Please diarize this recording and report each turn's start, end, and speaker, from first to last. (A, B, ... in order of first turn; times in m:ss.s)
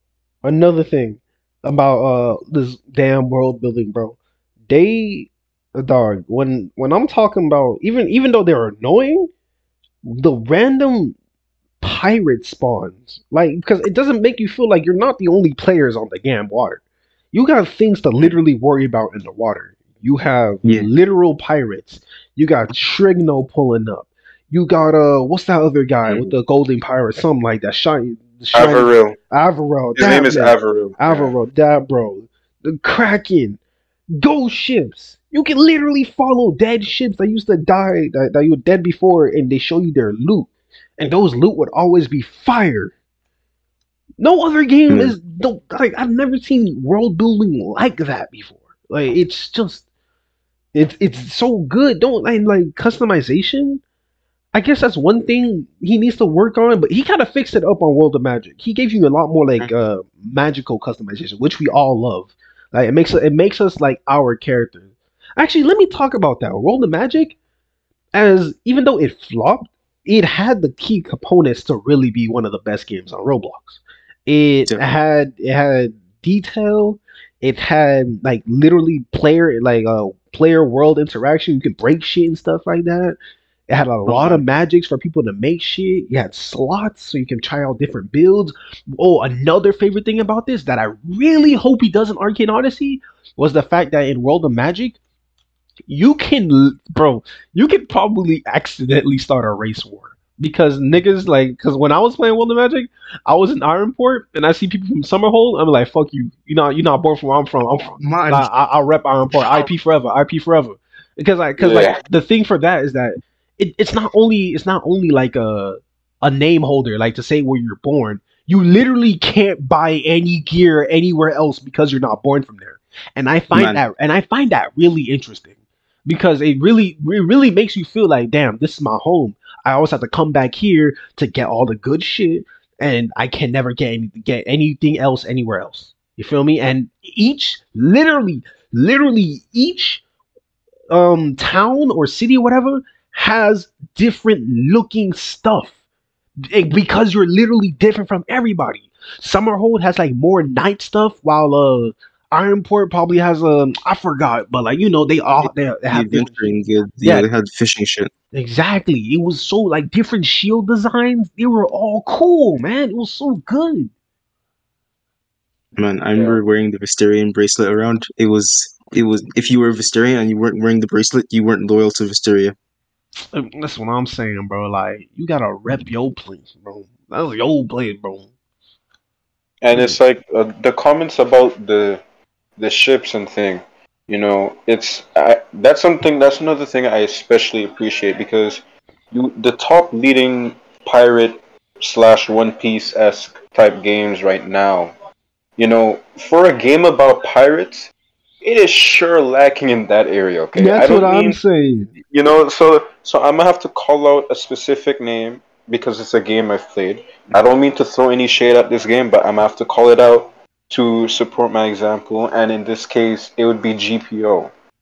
0:00.4-0:04.2 A
0:04.7-0:09.3 A
0:10.0-0:11.2 A
0:11.8-0:33.6 A
0:20.6-0:20.9 B
0:26.0-0:26.3 B
0:28.5-0:29.2 C
0:30.0-0:31.3 C
0:34.1-0:42.9 A
0:44.2-0:49.8 A
0:44.9-0:45.2 B
0:50.7-0:53.8 A
0:54.5-1:07.4 A
1:08.1-1:23.2 A
1:23.7-1:35.0 A
1:24.0-1:24.4 B
1:35.9-2:05.5 A
1:48.0-1:48.5 B
1:51.6-1:52.0 C
2:03.5-2:03.8 B
2:06.0-2:20.0 A
2:20.9-2:25.8 A
2:26.5-2:36.5 A
2:35.4-2:38.1 B
2:37.0-2:37.3 A
2:38.3-2:43.9 A
2:45.8-2:52.5 B
2:46.1-2:46.4 C
2:53.3-2:58.3 A
2:59.6-3:02.0 C
3:02.6-3:14.9 C
3:15.6-3:17.9 C
3:18.4-3:21.4 C
3:20.6-3:21.9 A
3:22.1-3:34.5 C